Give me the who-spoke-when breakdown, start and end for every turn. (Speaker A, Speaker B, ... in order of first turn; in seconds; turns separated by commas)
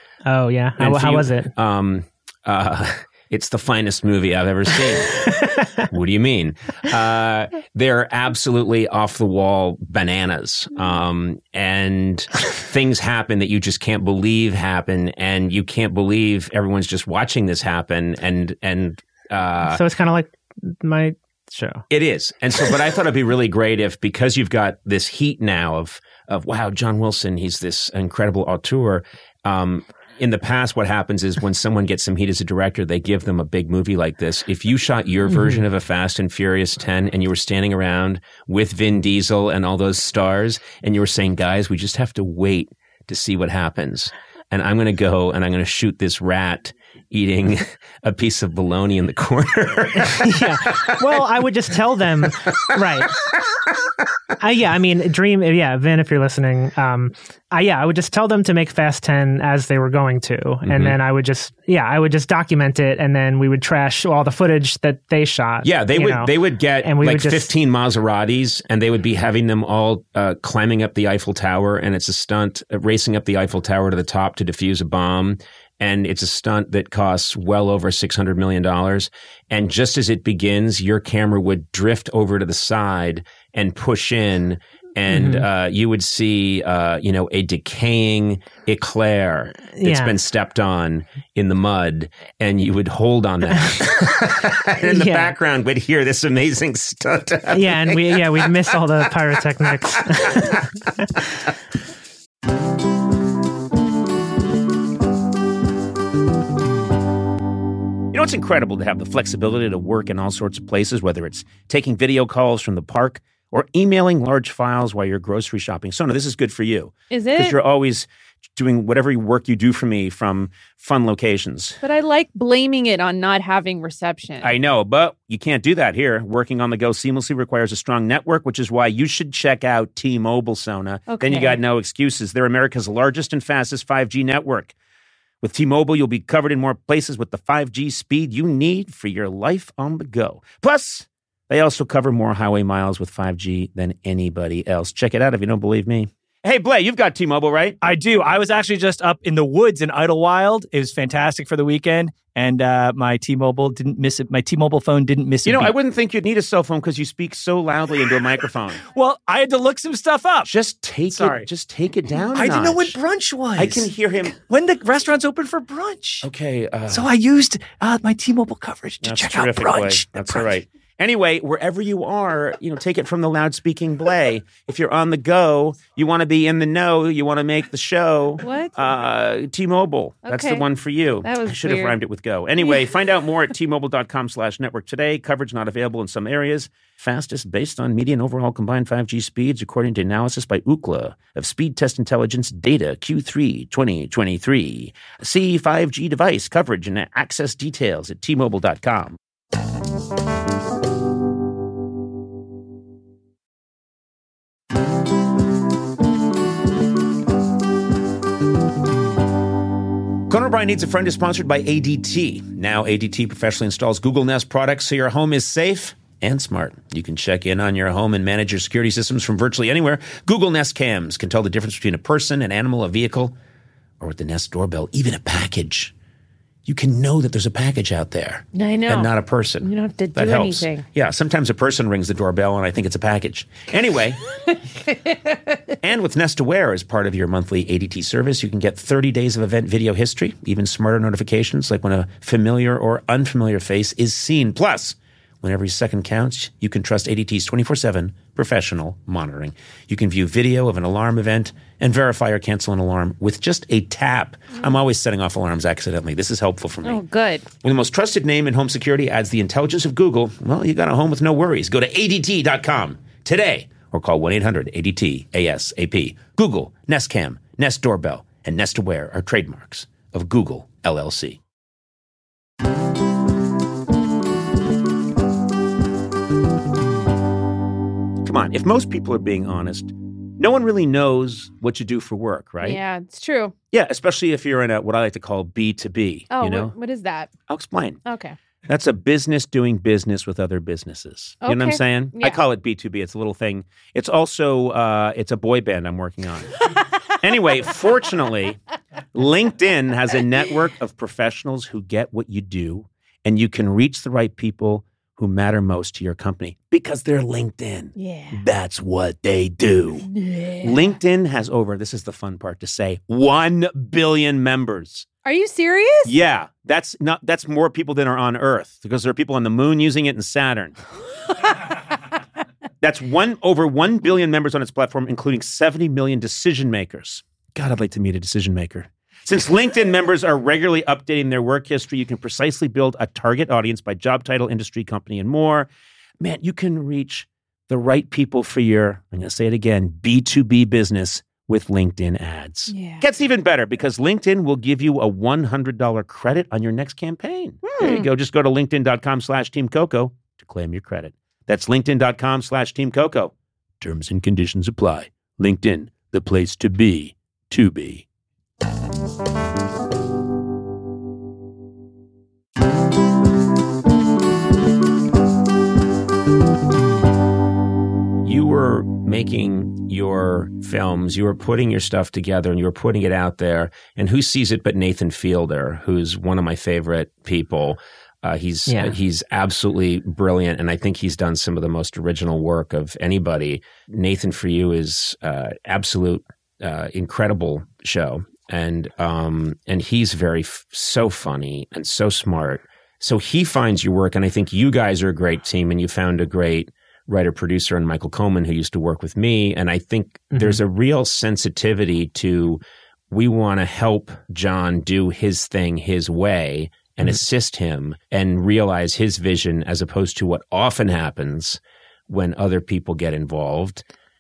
Speaker A: 0.3-1.5, Speaker B: 0.8-5.3, Speaker B: 5.9-19.8, Speaker A: 19.7-21.8, Speaker B: 21.9-51.0, Speaker A: 35.3-35.6, Speaker A: 50.0-53.1, Speaker A: 54.4-66.3, Speaker B: 60.6-61.0, Speaker B: 65.6-98.5, Speaker A: 66.8-67.5, Speaker A: 85.1-85.5, Speaker A: 89.8-90.1, Speaker A: 94.8-95.3, Speaker A: 97.5-100.6, Speaker B: 100.3-100.6, Speaker B: 108.1-121.8, Speaker C: 117.1-117.6, Speaker C: 121.8-124.5, Speaker B: 124.4-134.7, Speaker C: 131.1-131.6, Speaker B: 135.4-147.8, Speaker D: 147.8-155.8, Speaker B: 155.5-158.8, Speaker D: 158.9-160.5, Speaker B: 160.4-163.0, Speaker D: 161.1-161.5, Speaker D: 162.1-166.3, Speaker B: 163.6-164.4, Speaker B: 166.2-167.1, Speaker D: 166.9-170.6, Speaker B: 169.0-199.2, Speaker C: 178.4-178.7, Speaker C: 180.2-180.7, Speaker C: 181.2-182.0, Speaker C: 182.6-182.9, Speaker B: 210.3-223.3, Speaker B: 224.0-225.9, Speaker B: 226.7-234.2, Speaker C: 228.5-230.9, Speaker B: 235.8-257.1, Speaker C: 256.8-257.5, Speaker B: 257.6-271.4, Speaker B: 278.2-282.8, Speaker C: 282.6-283.5, Speaker B: 283.7-286.7, Speaker C: 286.3-287.3, Speaker B: 287.5-288.0, Speaker C: 288.1-288.4, Speaker B: 288.7-296.6, Speaker C: 291.4-292.4, Speaker B: 297.2-298.6, Speaker B: 299.1-310.1, Speaker C: 308.0-308.4, Speaker C: 310.0-310.9, Speaker B: 310.6-315.1, Speaker C: 315.2-316.1, Speaker B: 316.1-320.8, Speaker B: 322.8-335.7, Speaker B: 336.2-358.1, Speaker C: 342.7-343.0, Speaker C: 347.6-348.1, Speaker B: 368.2-413.8, Speaker A: 378.7-378.9, Speaker A: 400.3-400.6